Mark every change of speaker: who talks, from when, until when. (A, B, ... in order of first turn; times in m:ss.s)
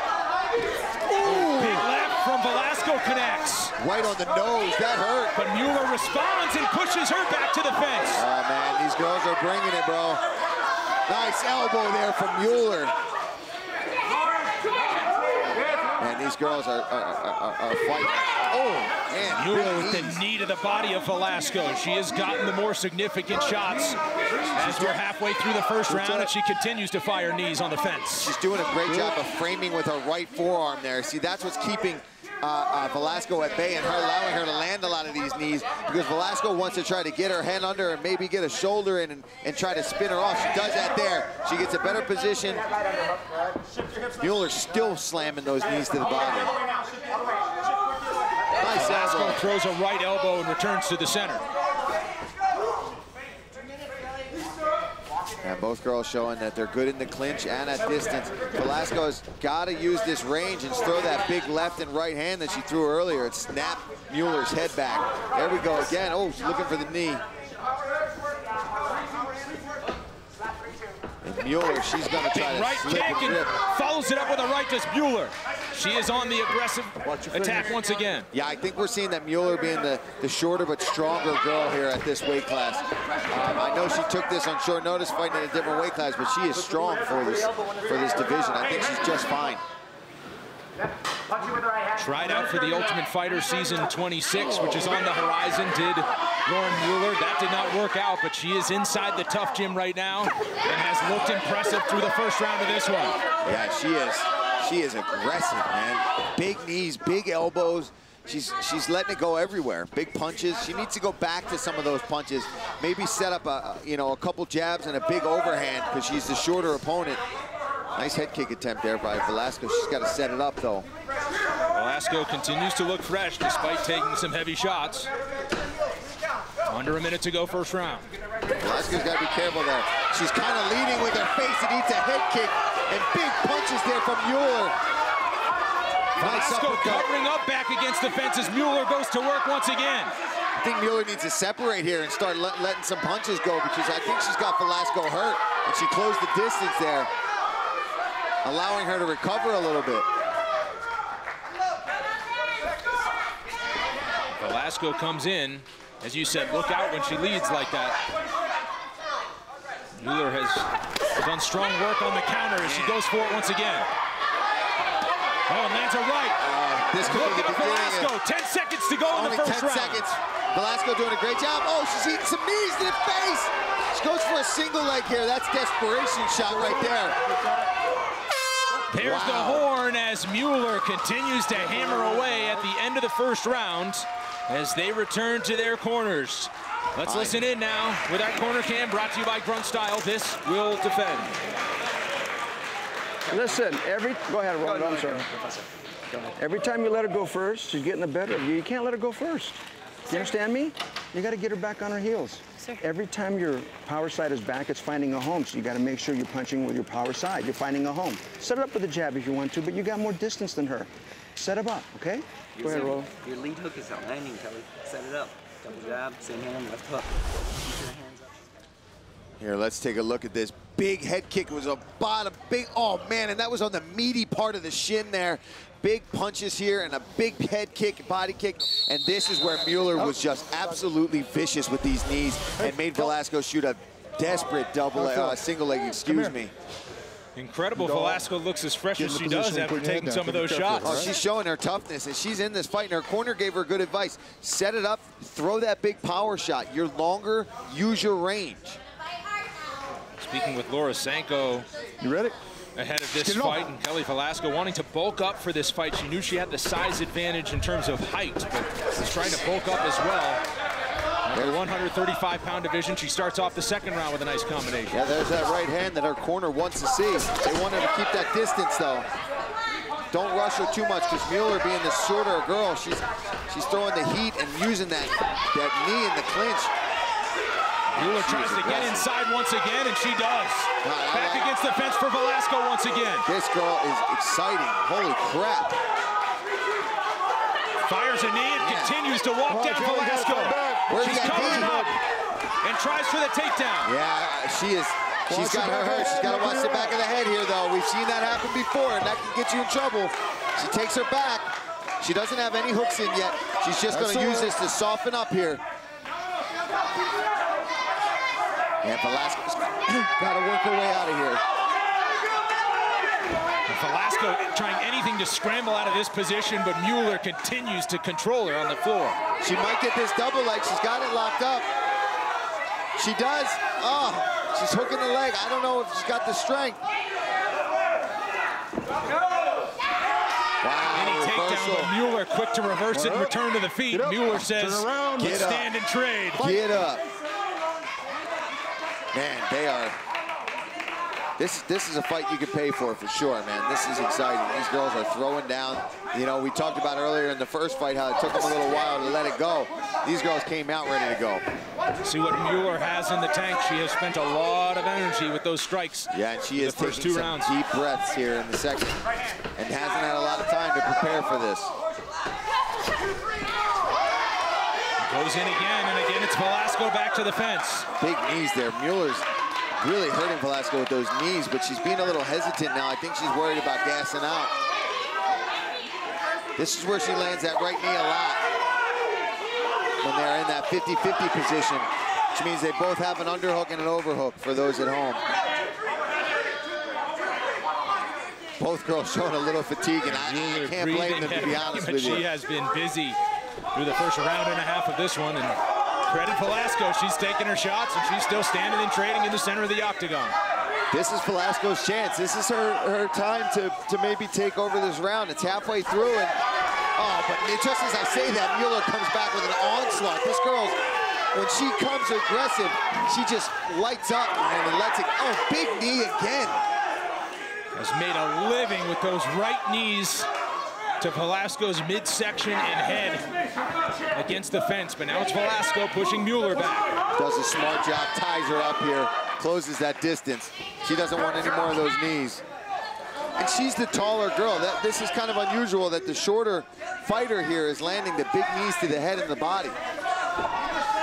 0:01.2-0:01.8 A
0:01.2-0:03.7 B
0:03.8-0:05.3 A
0:05.3-0:08.2 B
0:08.1-0:10.2 A
0:11.1-0:12.9 A
0:16.0-0:20.2 A
0:18.5-0:24.0 B
0:24.5-0:25.0 A
0:24.5-0:28.3 B
0:28.2-0:42.6 A
0:44.2-0:46.5 A
0:48.6-0:49.4 A
0:48.7-0:51.4 B
0:55.4-1:07.2 A
1:11.2-1:13.5 A
1:12.2-1:18.3 B
1:18.3-1:29.6 A
1:31.9-1:43.2 B
1:43.4-1:57.2 A
1:57.9-2:00.9 A
2:01.7-2:05.1 B
2:06.7-2:08.1 B
2:08.6-2:14.7 A
2:16.2-2:20.1 B
2:16.2-2:17.1 A
2:20.6-2:27.1 A
2:28.4-2:30.1 A
2:34.3-2:38.0 B
2:40.0-2:43.9 B
2:42.6-2:43.0 A
2:45.5-2:46.4 B
2:46.4-2:48.1 A
2:47.0-2:50.0 B
2:49.1-2:57.2 A
2:58.9-3:11.3 B
2:59.0-2:59.7 A
3:07.0-3:07.4 A
3:13.3-3:15.2 C
3:13.3-3:13.7 D
3:14.7-3:15.6 D
3:16.4-3:33.1 C
3:32.6-3:38.3 D
3:39.4-3:56.5 A
3:55.0-3:55.4 E
3:56.1-3:56.3 E
3:57.3-4:01.0 B
3:57.8-3:58.2 E
3:59.0-4:01.1 E
4:00.8-4:08.8 A
4:10.2-4:11.7 B
4:12.0-4:12.4 E
4:12.8-4:20.4 B
4:13.2-4:13.6 E
4:21.2-4:25.0 B
4:21.3-4:21.6 A
4:24.9-4:29.1 A
4:30.1-4:36.7 A
4:37.9-4:43.3 B
4:37.9-4:39.1 A
4:40.8-4:41.5 A
4:43.2-4:45.8 A
4:47.8-4:52.0 B
4:48.6-4:49.0 A
4:49.5-4:51.9 E
4:50.9-4:51.8 A
4:52.6-4:53.9 B
4:53.8-5:05.6 A
4:55.3-4:56.9 E
5:03.9-5:04.5 E
5:08.8-5:11.4 A
5:13.7-5:19.2 B
5:19.4-5:21.6 A
5:23.0-5:26.8 A
5:30.6-5:31.9 A
5:30.9-5:36.5 B
5:33.0-5:33.2 E
5:33.9-5:35.2 E
5:35.2-5:35.7 A
5:36.4-5:37.0 A
5:39.1-5:40.0 A
5:41.4-5:51.4 A
5:52.0-5:57.5 B
5:56.1-5:59.0 A
5:59.6-6:01.7 A
6:05.0-6:07.9 B
6:08.0-6:09.2 A
6:09.8-6:14.5 A
6:16.6-6:18.4 A
6:20.0-6:25.2 A
6:28.6-6:32.2 A
6:30.0-6:33.2 B
6:33.7-6:40.4 B
6:40.9-6:46.4 A
6:47.0-6:50.8 A
6:51.3-6:56.6 A
6:57.7-7:00.3 B
7:01.0-7:03.3 B
7:04.1-7:06.9 B
7:07.2-7:12.4 A
7:13.4-7:19.8 A